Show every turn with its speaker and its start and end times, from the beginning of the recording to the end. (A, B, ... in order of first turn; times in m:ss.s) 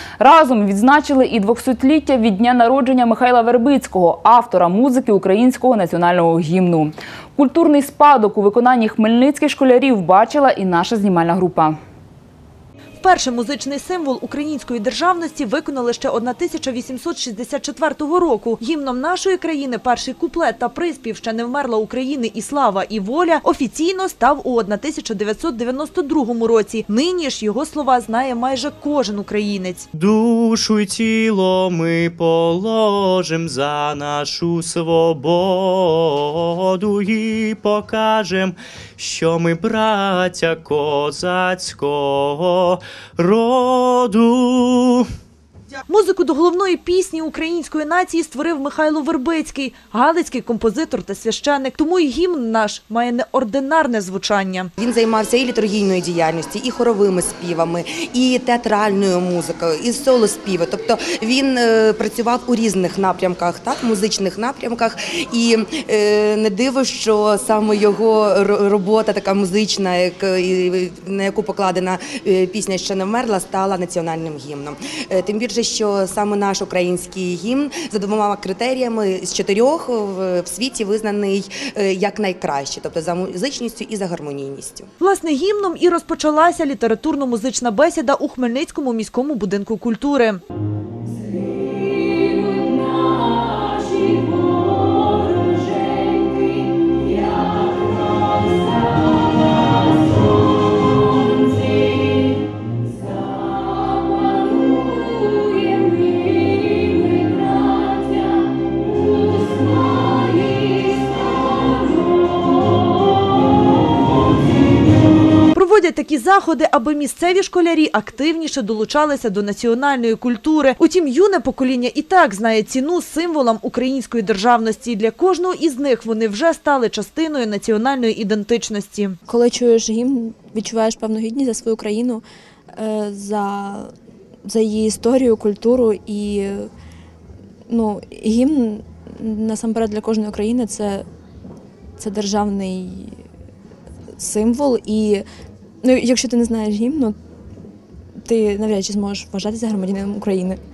0:00.2-0:11.8 A
0:13.0-0:29.9 B
0:29.9-0:45.1 C
0:45.9-0:54.7 B
0:54.8-1:24.9 D
1:25.0-1:30.4 B
1:45.2-1:45.8 B
1:55.5-2:09.2 B
2:09.3-2:12.2 E
2:12.7-2:13.9 E
2:14.4-2:16.7 E
2:17.7-2:21.0 E
2:22.0-2:23.2 E
2:24.2-2:25.2 E
2:25.8-2:27.1 E
2:28.2-2:30.6 E